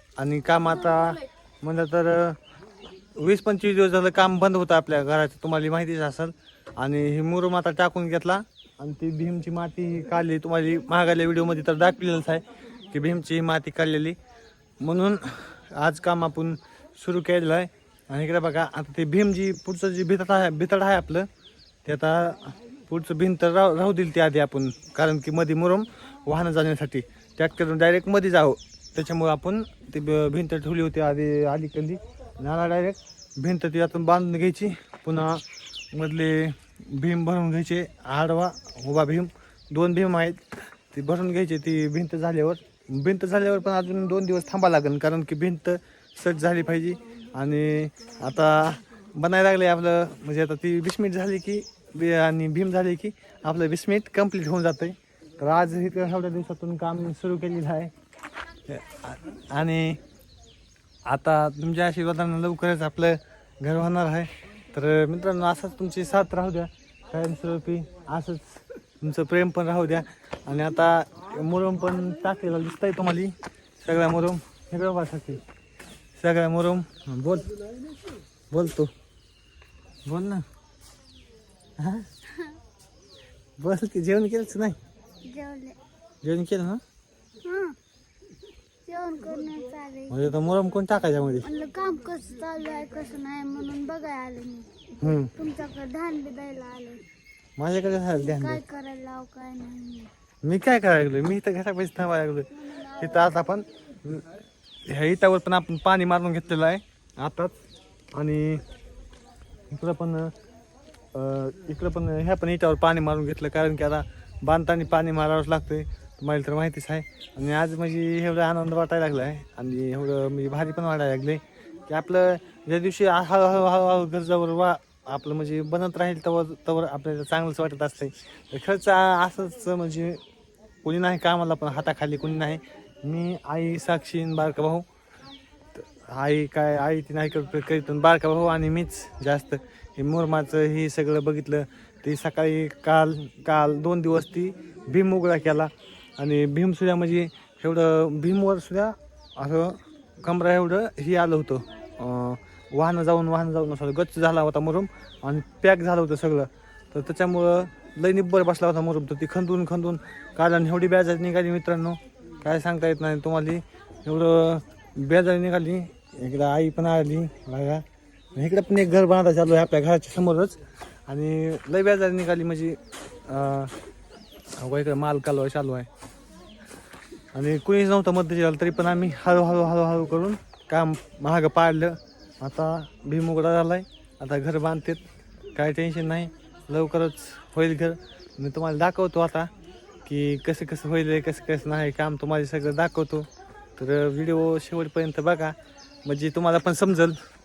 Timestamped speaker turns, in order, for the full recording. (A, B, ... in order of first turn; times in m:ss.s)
0:00.2-0:02.4 A
0:03.2-0:14.2 A
0:14.8-0:21.3 A
0:21.8-0:57.9 A
0:58.7-1:00.0 A
1:01.1-1:15.4 A
1:16.2-1:17.6 A
1:18.5-1:18.9 A
1:20.1-1:20.5 A
1:21.8-1:22.1 A
1:23.6-1:24.8 A
1:25.2-1:25.8 B
1:26.2-1:26.8 A
1:27.4-1:27.8 B
1:28.9-1:30.2 B
1:30.1-1:31.5 A
1:31.4-1:37.0 B
1:35.0-1:35.4 A
1:37.6-1:38.6 A
1:38.2-1:40.1 B
1:40.4-1:47.6 A
1:42.6-1:43.3 B
1:48.1-1:48.6 A
1:49.7-1:50.3 A
1:51.1-2:10.2 A
2:10.8-2:14.9 A
2:15.8-2:53.8 A
2:54.6-2:55.9 A
2:57.3-3:05.0 A
3:05.5-3:09.5 A
3:10.0-3:17.2 A